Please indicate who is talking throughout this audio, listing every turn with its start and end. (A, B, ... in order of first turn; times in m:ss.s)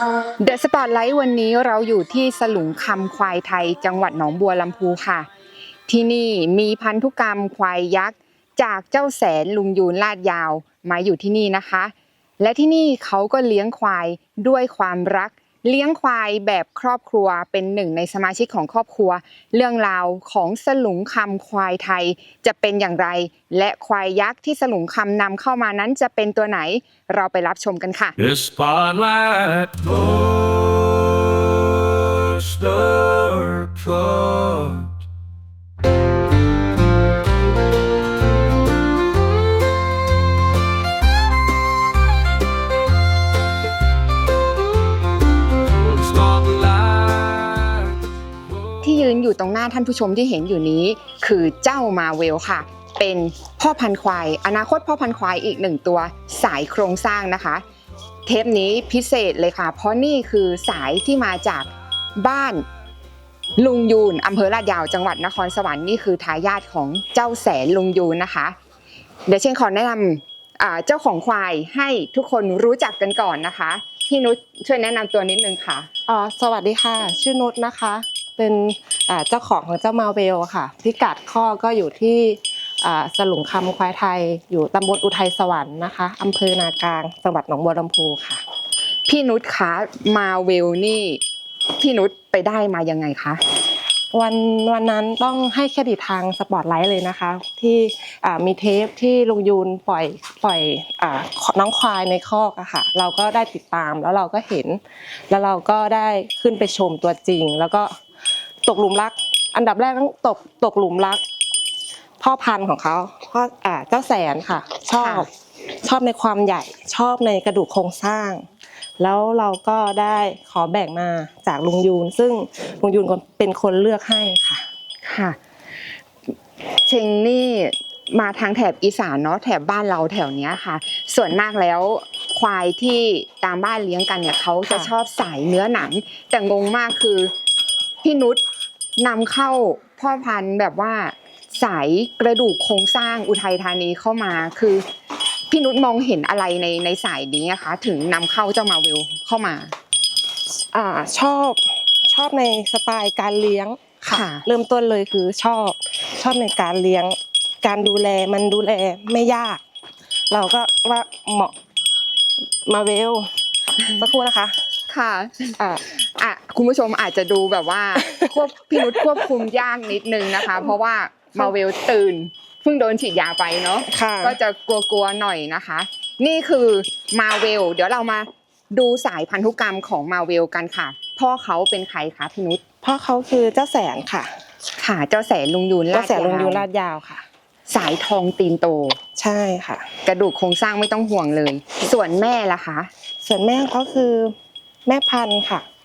0:00.4-0:05.3 A
0:05.9-0:28.2 A
0:28.2-0:34.9 B
0:45.8-0:48.0 B
0:48.8-0:57.6 A
0:58.2-1:02.6 A
1:03.6-1:08.6 A
1:09.2-1:15.9 A
1:16.1-1:28.4 C
1:29.1-1:31.2 A
1:31.8-1:33.4 A
1:34.1-1:48.0 C
1:48.6-1:51.2 C
1:52.2-1:55.3 C
1:55.0-1:55.3 A
1:55.8-1:58.5 C
1:59.0-2:04.7 C
2:05.0-2:05.4 A
2:06.8-2:17.3 A
2:14.6-2:14.9 C
2:18.0-2:18.4 A
2:19.0-2:24.8 A
2:25.5-2:29.7 A
2:30.7-2:39.6 C
2:34.1-2:34.4 A
2:40.3-2:41.5 C
2:42.6-2:44.6 C
2:44.9-3:02.6 A
2:53.9-2:54.4 C
3:02.8-3:04.4 C
3:04.8-3:06.6 A
3:05.9-3:07.2 C
3:07.7-3:09.0 A
3:09.2-3:09.9 C
3:10.0-3:12.9 A
3:13.2-3:14.3 C
3:14.8-3:15.6 C